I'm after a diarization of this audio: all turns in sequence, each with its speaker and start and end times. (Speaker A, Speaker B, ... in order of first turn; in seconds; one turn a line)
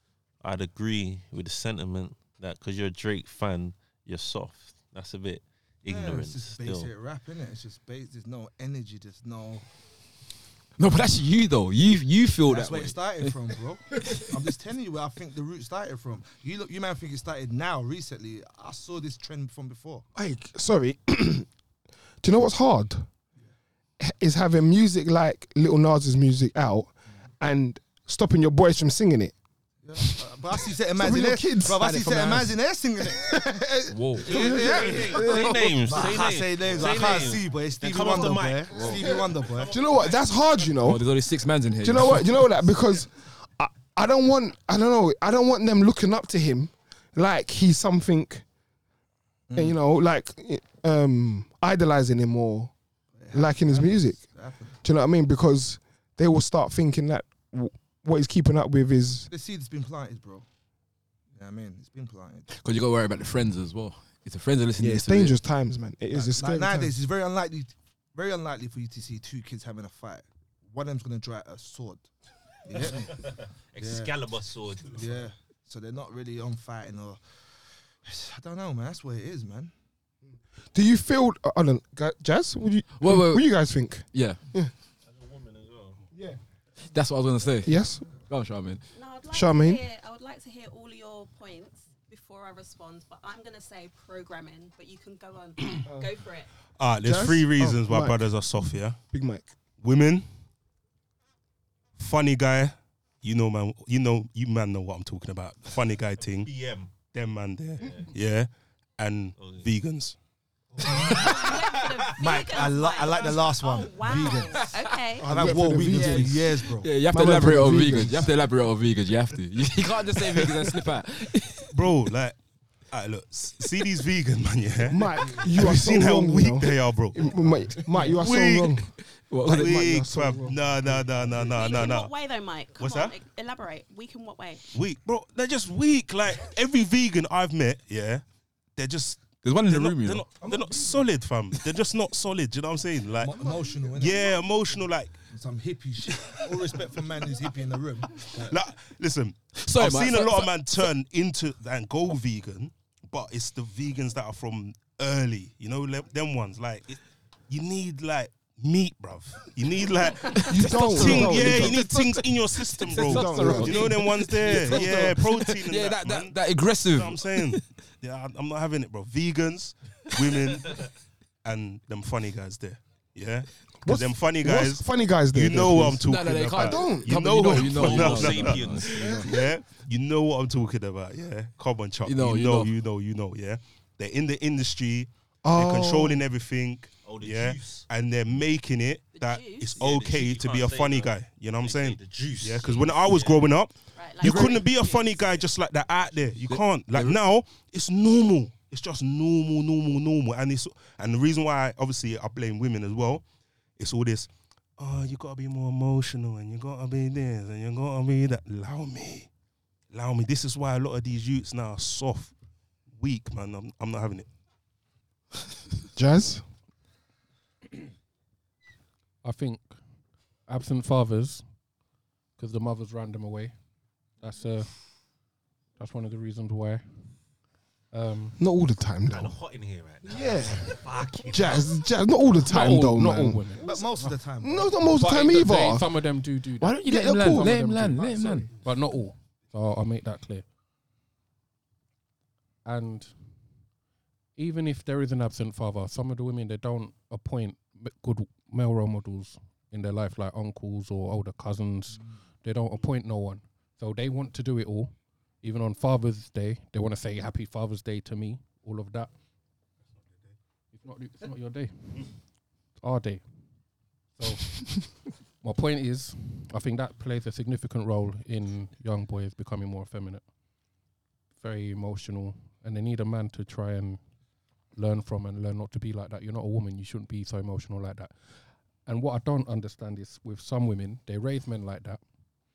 Speaker A: 0.4-6.9
Speaker B: 5.8-9.7
Speaker C: 10.8-13.3
Speaker B: 12.4-20.0
Speaker D: 20.1-21.5
Speaker D: 22.2-23.1
Speaker D: 24.0-29.3
Speaker B: 29.8-33.7
Speaker D: 30.0-32.5
Speaker C: 32.0-32.5
Speaker D: 33.0-36.2
Speaker C: 33.9-34.4
Speaker A: 34.2-40.3
Speaker B: 34.2-39.7
Speaker C: 38.8-39.0
Speaker D: 39.7-41.0
Speaker C: 40.8-42.4
Speaker D: 41.8-48.4
Speaker B: 49.5-49.8
Speaker D: 49.5-52.7
Speaker B: 53.1-54.8
Speaker D: 53.3-54.2
Speaker D: 54.8-59.3
Speaker B: 59.3-60.5
Speaker B: 61.3-62.5
Speaker C: 62.5-65.4
Speaker D: 64.8-67.0
Speaker B: 66.1-72.1
Speaker B: 72.6-73.3
Speaker A: 72.7-75.3
Speaker B: 73.8-74.1
Speaker B: 74.9-77.2
Speaker B: 78.0-79.7
Speaker D: 80.7-84.7
Speaker C: 83.0-83.5
Speaker C: 84.1-84.4
Speaker A: 85.1-86.0
Speaker D: 86.1-86.4
Speaker C: 86.9-87.8
Speaker D: 87.6-88.1
Speaker C: 88.3-88.8
Speaker E: 88.9-96.5
Speaker D: 89.3-89.8
Speaker F: 96.8-99.0
Speaker D: 97.0-98.4
Speaker D: 99.0-99.5
Speaker F: 99.8-100.3
Speaker F: 102.0-106.5
Speaker A: 106.4-106.9
Speaker F: 107.1-110.2
Speaker A: 107.8-108.1
Speaker A: 109.4-109.7
Speaker B: 110.8-111.3
Speaker A: 110.8-112.4
Speaker E: 111.1-115.3
Speaker B: 112.2-116.9
Speaker C: 114.5-121.9
Speaker D: 115.2-116.5
Speaker D: 117.1-118.3
Speaker F: 121.7-122.4
Speaker F: 122.9-128.8
Speaker D: 124.9-128.9
Speaker C: 127.9-128.3
Speaker C: 129.2-130.1
Speaker F: 129.4-132.1
Speaker D: 129.5-131.1
Speaker E: 131.5-134.6
Speaker F: 132.8-133.2
Speaker F: 134.7-138.2
Speaker F: 138.8-145.2
Speaker C: 139.4-140.3
Speaker B: 140.4-141.0
Speaker B: 143.1-144.5
Speaker B: 145.3-148.6
Speaker F: 146.2-146.7
Speaker F: 148.2-170.9
Speaker C: 149.6-150.5
Speaker C: 160.3-167.6
Speaker D: 160.5-161.8
Speaker D: 162.9-165.1
Speaker F: 171.4-203.2
Speaker D: 173.8-177.3
Speaker C: 176.0-179.1
Speaker A: 177.4-179.3
Speaker D: 179.0-179.3
Speaker C: 182.0-182.7
Speaker D: 185.4-186.2
Speaker A: 187.0-187.8
Speaker E: 189.1-189.7
Speaker A: 189.8-193.5
Speaker E: 193.9-195.2
Speaker C: 194.2-194.6
Speaker C: 196.5-197.2
Speaker F: 203.8-209.3
Speaker F: 209.9-212.3
Speaker F: 212.9-214.3
Speaker D: 215.9-216.4
Speaker G: 219.2-219.7
Speaker G: 220.5-221.4
Speaker G: 222.4-223.5
Speaker G: 224.2-224.8
Speaker G: 225.8-226.8
Speaker G: 227.9-228.4
Speaker D: 228.4-229.4
Speaker A: 229.1-231.7
Speaker D: 230.0-230.8
Speaker D: 231.3-233.6
Speaker G: 232.4-234.1
Speaker B: 233.6-234.8
Speaker D: 234.4-235.9
Speaker G: 234.9-240.4
Speaker C: 236.6-238.5
Speaker D: 236.8-237.6
Speaker G: 242.6-243.3
Speaker G: 244.4-259.1
Speaker G: 260.7-262.2
Speaker G: 262.8-263.2
Speaker G: 264.1-270.2
Speaker G: 271.4-274.0
Speaker G: 274.7-278.1
Speaker G: 278.9-282.0